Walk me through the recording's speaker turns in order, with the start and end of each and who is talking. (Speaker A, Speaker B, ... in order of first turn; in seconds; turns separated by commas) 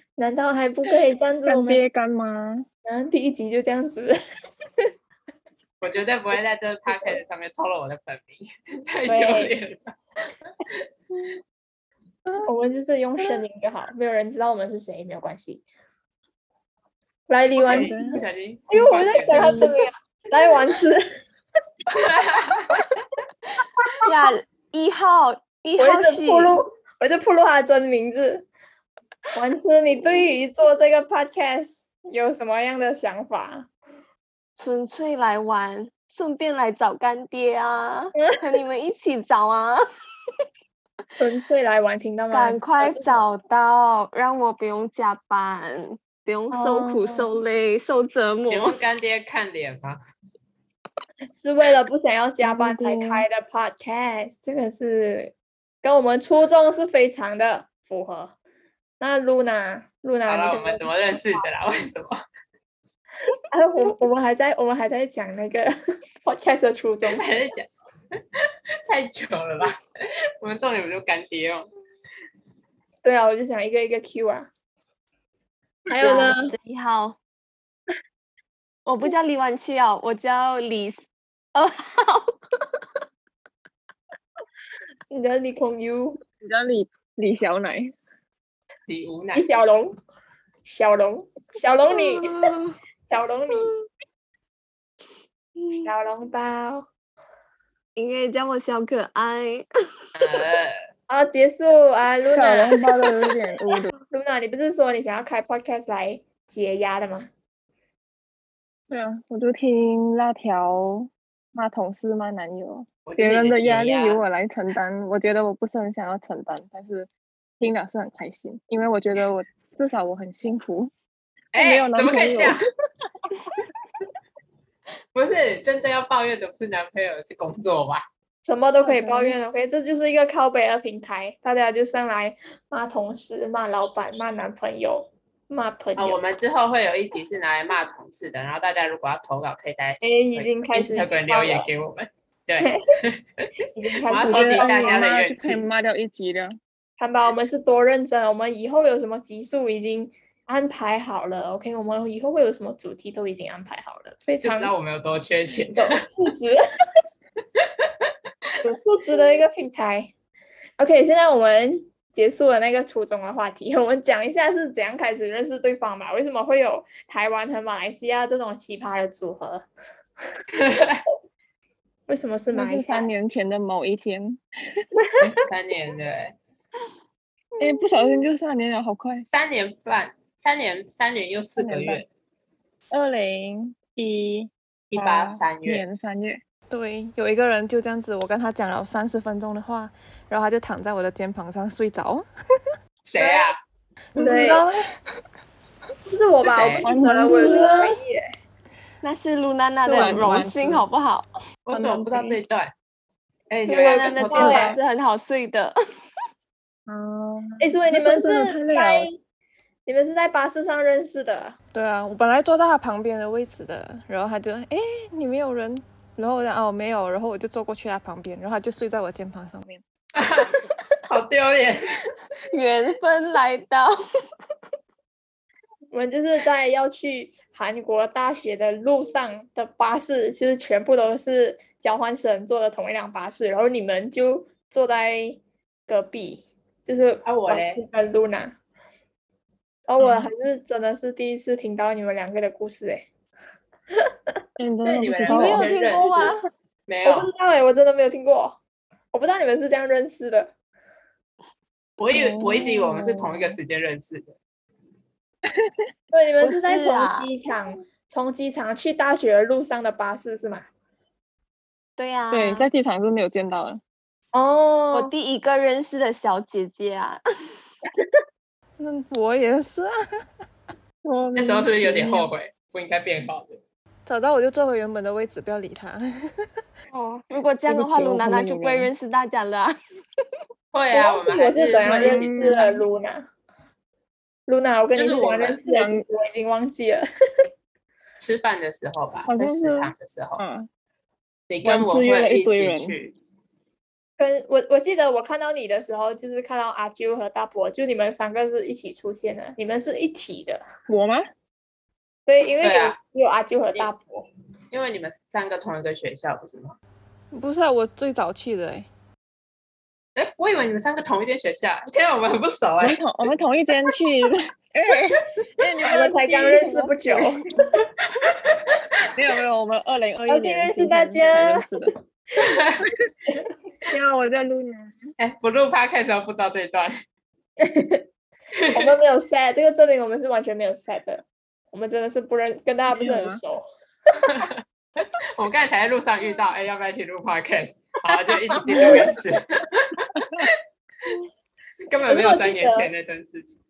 Speaker A: 0.2-1.8, Speaker B: 1.5-2.7, Speaker A: 2.9-4.1, Speaker C: 5.8-9.9, Speaker A: 9.1-9.5, Speaker A: 12.4-15.6, Speaker A: 17.3-21.2, Speaker C: 17.6-19.7, Speaker B: 17.7-18.2, Speaker B: 19.3-19.7, Speaker C: 21.9-22.8, Speaker D: 24.0-26.6, Speaker A: 25.8-28.5, Speaker A: 29.3-33.7, Speaker D: 34.6-39.8, Speaker A: 41.1-43.2, Speaker D: 42.3-48.7, Speaker A: 46.5-47.3, Speaker C: 48.4-50.0, Speaker A: 51.4-58.3, Speaker B: 52.4-53.3, Speaker A: 59.0-61.4, Speaker C: 60.3-62.2, Speaker A: 63.5-67.3, Speaker C: 67.1-67.7, Speaker C: 68.9-69.8, Speaker C: 70.4-71.7, Speaker A: 73.0-74.5, Speaker A: 75.9-76.5, Speaker D: 76.0-77.2, Speaker D: 78.9-82.3, Speaker A: 85.1-86.2, Speaker B: 86.4-87.9, Speaker C: 88.9-89.5, Speaker A: 89.3-90.0, Speaker A: 90.7-92.5, Speaker D: 91.9-92.8, Speaker A: 93.1-93.7, Speaker D: 95.6-95.9, Speaker A: 95.8-96.9, Speaker D: 98.0-99.7, Speaker C: 100.2-100.7, Speaker A: 101.1-102.8, Speaker B: 102.3-103.9, Speaker A: 104.1-107.3, Speaker B: 108.9-117.1, Speaker C: 113.0-114.2, Speaker B: 117.6-120.9, Speaker C: 121.5-122.7, Speaker B: 121.6-122.6, Speaker C: 125.1-128.1, Speaker A: 128.4-136.2, Speaker B: 128.8-129.4, Speaker C: 136.0-143.4, Speaker A: 140.0-141.7, Speaker A: 143.7-145.1, Speaker C: 144.1-145.7, Speaker B: 144.2-146.6, Speaker A: 147.0-154.7, Speaker C: 154.4-156.0, Speaker A: 155.8-156.6, Speaker C: 157.6-158.1, Speaker A: 158.6-160.1, Speaker A: 160.8-169.7, Speaker C: 170.6-171.0, Speaker A: 172.1-173.1, Speaker B: 172.5-174.8, Speaker C: 175.2-176.3, Speaker B: 177.6-179.3, Speaker C: 179.3-182.1, Speaker B: 181.6-182.0, Speaker B: 182.9-186.4, Speaker C: 184.9-185.8, Speaker E: 186.7-192.2, Speaker C: 193.1-193.6, Speaker A: 193.2-193.5, Speaker E: 194.2-194.9, Speaker A: 194.2-194.7, Speaker A: 196.1-198.2, Speaker C: 196.4-196.9, Speaker B: 196.8-197.9, Speaker D: 199.0-201.3, Speaker B: 199.8-200.8, Speaker C: 201.7-202.7, Speaker B: 201.7-202.4, Speaker C: 203.5-204.7, Speaker A: 203.7-204.8, Speaker D: 203.8-205.7, Speaker B: 204.3-204.8, Speaker B: 206.9-209.1, Speaker A: 207.6-209.2, Speaker A: 209.9-211.6, Speaker E: 211.7-219.8, Speaker C: 220.2-220.5, Speaker C: 221.1-222.0, Speaker D: 222.5-223.9, Speaker A: 225.9-238.6, Speaker C: 237.2-237.8, Speaker A: 239.9-243.1, Speaker B: 240.0-240.3, Speaker B: 244.6-246.2, Speaker C: 244.8-246.3, Speaker D: 245.3-246.4, Speaker C: 246.9-247.3, Speaker A: 247.1-248.6, Speaker A: 249.1-250.5, Speaker C: 252.0-254.4, Speaker B: 252.1-253.6, Speaker A: 256.1-260.7, Speaker D: 256.4-257.3, Speaker D: 262.0-262.7, Speaker B: 262.3-263.8, Speaker A: 264.3-265.1, Speaker D: 264.9-267.2, Speaker E: 268.8-269.9, Speaker B: 271.0-272.3, Speaker C: 271.4-273.6, Speaker E: 274.1-276.0, Speaker D: 276.9-279.8, Speaker B: 277.7-278.9, Speaker C: 280.7-282.6, Speaker A: 280.9-283.3, Speaker B: 281.8-282.8, Speaker A: 284.5-287.1, Speaker C: 284.9-285.6, Speaker B: 285.7-286.1, Speaker C: 288.2-290.4, Speaker B: 289.3-290.7, Speaker C: 291.5-293.2, Speaker B: 291.6-292.9, Speaker A: 294.2-300.6, Speaker B: 300.9-301.3, Speaker A: 302.3-304.3, Speaker C: 302.6-303.0, Speaker C: 304.7-306.8, Speaker E: 307.3-308.9, Speaker C: 310.2-313.0, Speaker B: 312.8-317.5, Speaker A: 315.9-317.4, Speaker C: 318.2-318.7, Speaker B: 319.1-321.9, Speaker A: 320.3-321.7, Speaker C: 322.4-322.8, Speaker B: 323.9-325.1, Speaker C: 325.2-327.0, Speaker A: 327.6-328.0, Speaker C: 328.6-328.9, Speaker A: 328.7-333.6, Speaker B: 332.9-333.4, Speaker C: 334.3-334.5, Speaker C: 335.4-340.6, Speaker A: 338.5-339.1, Speaker B: 340.2-340.5, Speaker C: 341.9-343.6, Speaker A: 342.1-342.9